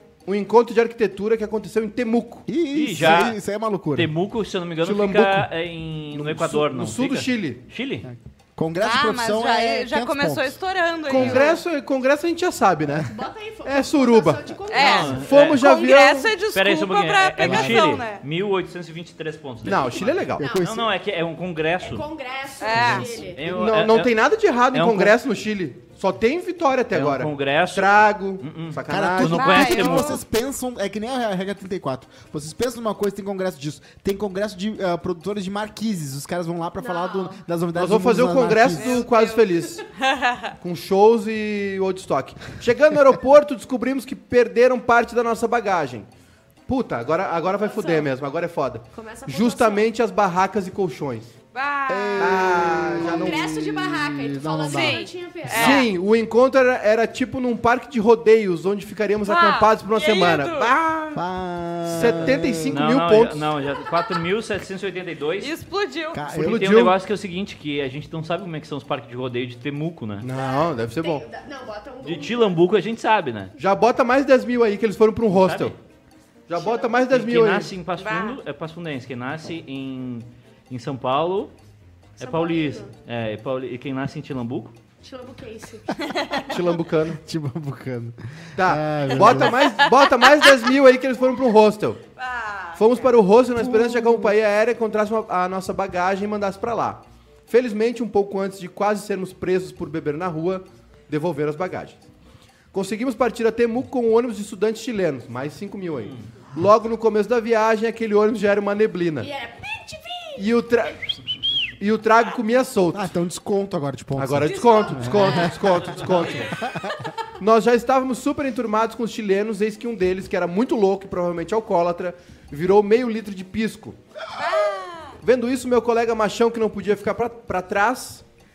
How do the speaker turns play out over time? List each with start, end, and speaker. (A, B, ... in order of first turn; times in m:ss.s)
0:00.2-0:02.4 A
0:02.5-0:04.1 B
0:02.7-0:03.4 C
0:03.9-0:08.0 C
0:04.8-0:05.5 A
0:06.1-0:07.6 A
0:08.0-0:10.6 B
0:08.8-0:11.6 D
0:11.1-0:14.5 A
0:11.1-0:11.4 B
0:13.0-0:15.2 E
0:14.7-0:18.2 D
0:14.7-0:15.6 C
0:15.1-0:16.3 A
0:16.5-0:22.0 C
0:17.4-0:17.9 B
0:19.6-0:20.5 A
0:20.4-0:20.9 B
0:20.4-0:20.7 E
0:21.8-0:23.4 E
0:22.6-0:23.2 D
0:22.7-0:24.2 C
0:23.4-0:30.0 A
0:24.7-0:25.2 C
0:26.9-0:30.2 C
0:28.9-0:39.0 B
0:29.3-0:30.2 D
0:36.8-0:37.4 E
0:37.7-0:39.8 A
0:38.7-0:40.5 D
0:40.6-0:46.1 A
0:46.7-0:51.3 A
0:47.6-0:48.1 E
0:48.9-0:49.9 E
0:51.5-0:52.8 D
0:51.9-0:55.0 B
0:52.2-0:53.4 A
0:52.9-0:55.8 E
0:54.6-0:55.9 D
0:55.5-1:01.2 A
0:59.2-1:00.7 D
1:01.1-1:02.8 B
1:01.8-1:03.5 A
1:02.0-1:05.5 C
1:05.4-1:06.3 D
1:06.1-1:06.7 B
1:06.3-1:10.3 C
1:06.3-1:07.0 A
1:10.2-1:11.2 A
1:10.3-1:12.6 E
1:12.0-1:13.5 C
1:13.6-1:15.8 A
1:15.3-1:15.8 C
1:16.5-1:17.7 A
1:16.6-1:16.8 E
1:17.1-1:21.5 C
1:18.0-1:18.4 D
1:22.2-1:24.7 C
1:22.2-1:22.9 E
1:25.0-1:26.0 E
1:26.0-1:26.5 D
1:26.5-1:27.2 A
1:27.2-1:29.8 B
1:28.6-1:32.0 A
1:29.2-1:29.7 D
1:32.2-1:33.0 D
1:32.8-1:42.0 A
1:42.7-1:49.3 A
1:49.2-1:50.5 E
1:50.4-1:51.2 A
1:51.8-1:53.1 A
1:52.9-1:57.0 B
1:54.2-1:56.6 A
1:54.4-1:55.9 E
1:55.9-1:56.4 C
1:57.4-2:04.0 A
2:04.4-2:05.2 D
2:05.2-2:08.2 A